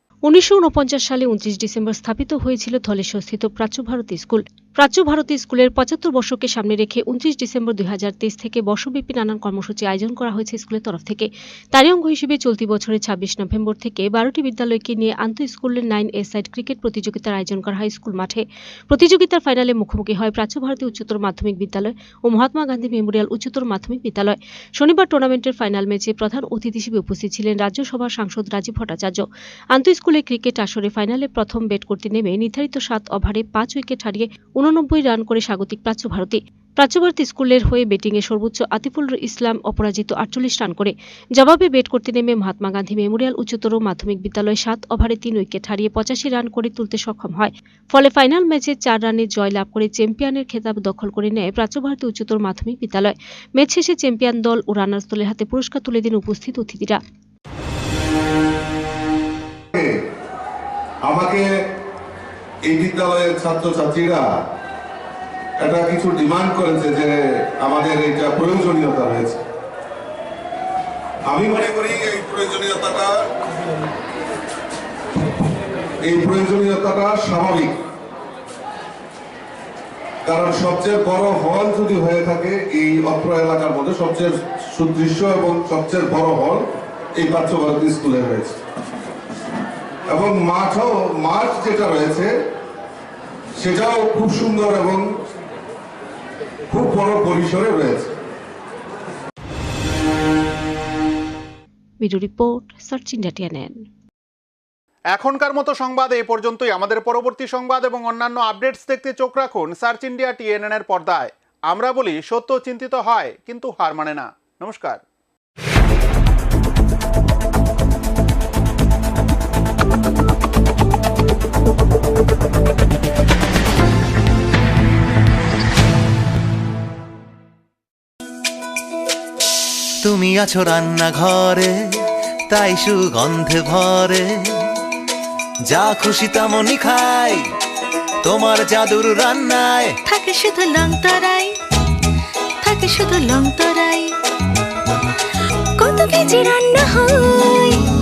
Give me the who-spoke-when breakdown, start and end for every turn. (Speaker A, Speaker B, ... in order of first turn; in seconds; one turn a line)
Speaker A: 0.3-57.0
Speaker B: 61.0-61.4
Speaker B: 62.6-64.2
Speaker B: 65.6-69.4
Speaker B: 71.2-73.1
Speaker B: 76.0-77.8
Speaker B: 80.2-86.6
Speaker B: 87.2-88.5
Speaker B: 90.1-92.3
Speaker B: 93.6-95.0
Speaker B: 96.7-98.1
Speaker A: 102.0-103.8
Speaker C: 105.1-115.0
Speaker D: 130.0-131.7
Speaker D: 132.5-134.2
Speaker D: 135.7-137.4
Speaker D: 138.2-139.8
Speaker E: 140.0-141.5
Speaker E: 142.6-144.1
Speaker E: 145.8-147.8